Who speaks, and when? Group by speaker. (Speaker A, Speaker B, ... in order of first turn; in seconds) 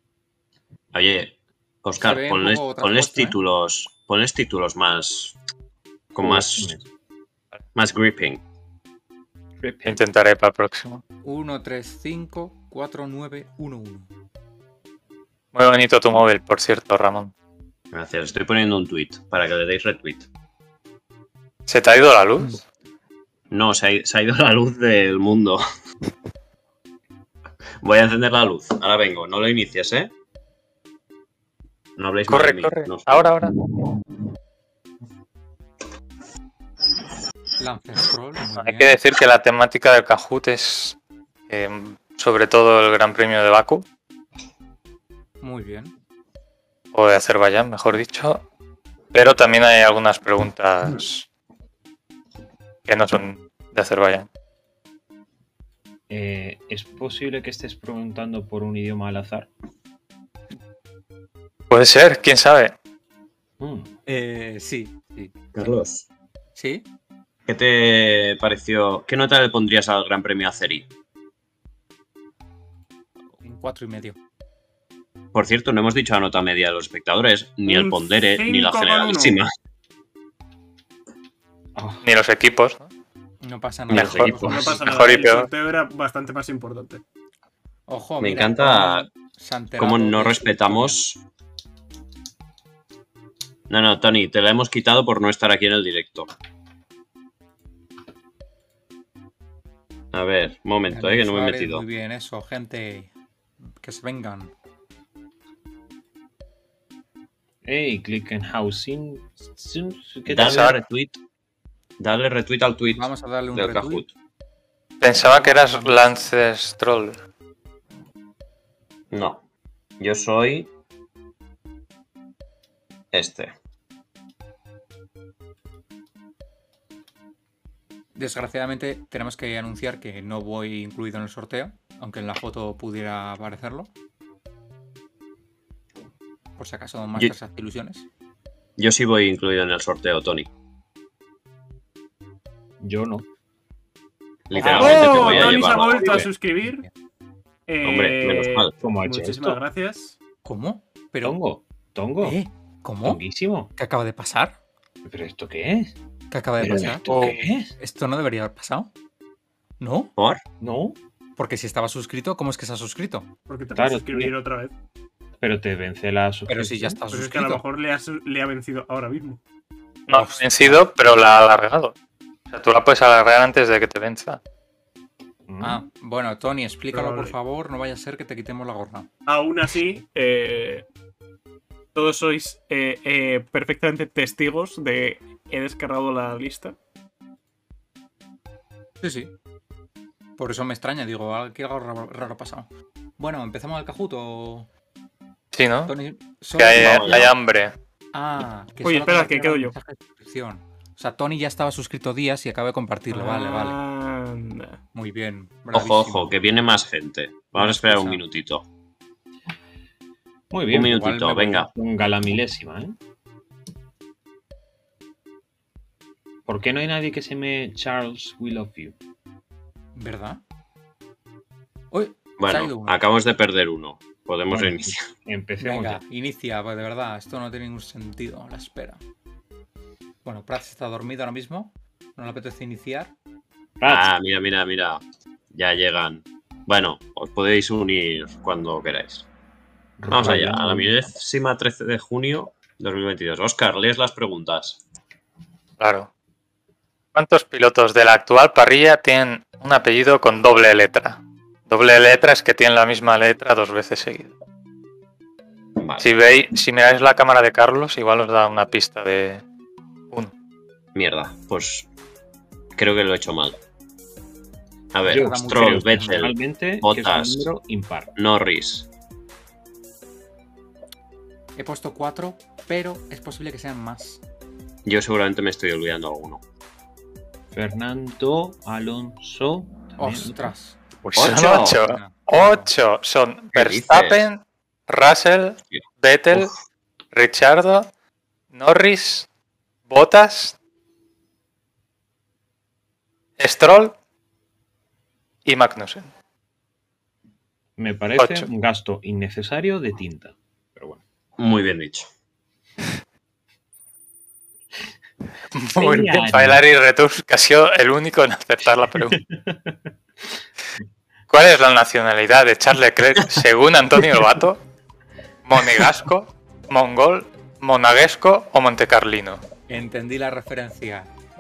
Speaker A: 0.9-5.4, 6.1-6.8, 7.8-8.4, 17.9-20.3, 23.5-25.6, 27.8-30.1, 32.0-33.3, 65.5-66.1, 67.5-70.9, 75.3-79.5, 83.9-84.8, 88.2-89.1, 89.8-91.2, 93.7-96.3, 100.1-101.8, 110.3-111.2, 112.0-114.1, 119.1-119.4, 120.0-120.7, 123.1-123.5, 138.8-140.5, 144.5-146.3, 147.8-148.7, 196.8-197.3, 205.7-208.7, 210.7-211.7, 222.4-225.1, 233.9-235.0, 235.5-239.3, 240.1-244.8, 255.8-256.1, 260.9-261.9, 262.8-263.6, 264.9-267.5, 268.2-268.9, 274.9-276.4, 281.1-281.8, 283.5-284.3, 301.4-302.1
Speaker B: 2.0-3.4, 11.2-14.1, 37.6-39.0, 45.4-45.9, 64.1-65.3, 66.6-66.9, 73.4-74.2, 83.4-85.0, 87.9-91.0, 100.9-103.1, 103.8-104.5, 112.9-114.0, 115.1-116.1, 128.2-133.9, 136.6-138.1, 150.4-151.4, 152.2-153.2, 153.7-154.6, 156.3-158.9, 159.8-160.1, 161.4-163.3, 166.5-167.6, 170.1-170.9, 175.6-179.1, 189.0-189.3, 190.4-194.7, 195.9-197.3, 198.1-203.8, 204.9-206.3, 207.6-208.2, 210.8-211.7, 219.9-220.4, 221.9-223.0, 225.6-229.0, 230.2-233.1, 265.1-266.3, 271.6-274.2, 280.0-280.8, 281.7-282.7, 319.7-321.1
Speaker C: 6.2-6.8, 9.6-10.0, 56.1-59.5, 63.6-63.9, 81.8-82.0, 107.7-110.8, 142.8-143.3, 144.6-146.3, 148.8-149.6, 151.2-152.4, 153.0-153.7, 155.0-155.9, 156.6-157.7, 160.6-161.0, 163.8-164.3, 165.4-167.0, 175.5-175.8, 210.5-211.1, 211.7-213.0, 216.5-218.9, 224.5-226.0, 233.8-234.1, 240.0-241.1, 265.1-268.1, 277.5-280.5, 297.8-301.0, 305.8-306.6, 309.1-309.8
Speaker D: 9.9-11.0, 15.5-17.3, 21.7-22.6, 32.3-33.6, 38.6-41.0, 41.5-43.9, 46.9-48.4, 49.1-51.3, 52.9-54.3, 61.7-62.8, 82.0-82.9, 83.9-85.5, 110.4-110.8, 115.0-117.2, 157.1-157.4, 170.1-171.9, 172.5-174.4, 195.5-195.9, 196.6-197.7, 245.8-246.1, 247.2-254.3, 256.0-259.4, 281.0-286.5, 287.1-287.9, 288.5-289.3, 289.9-290.6, 293.4-294.0, 295.5-296.1, 298.2-298.5, 305.6-309.2, 311.3-314.6, 315.4-319.4
Speaker E: 77.7-79.4, 84.3-87.0, 144.6-146.9, 147.7-150.2, 163.5-164.7, 167.1-169.4, 176.9-177.3, 179.3-180.8, 181.9-186.8, 198.8-199.8, 203.1-204.8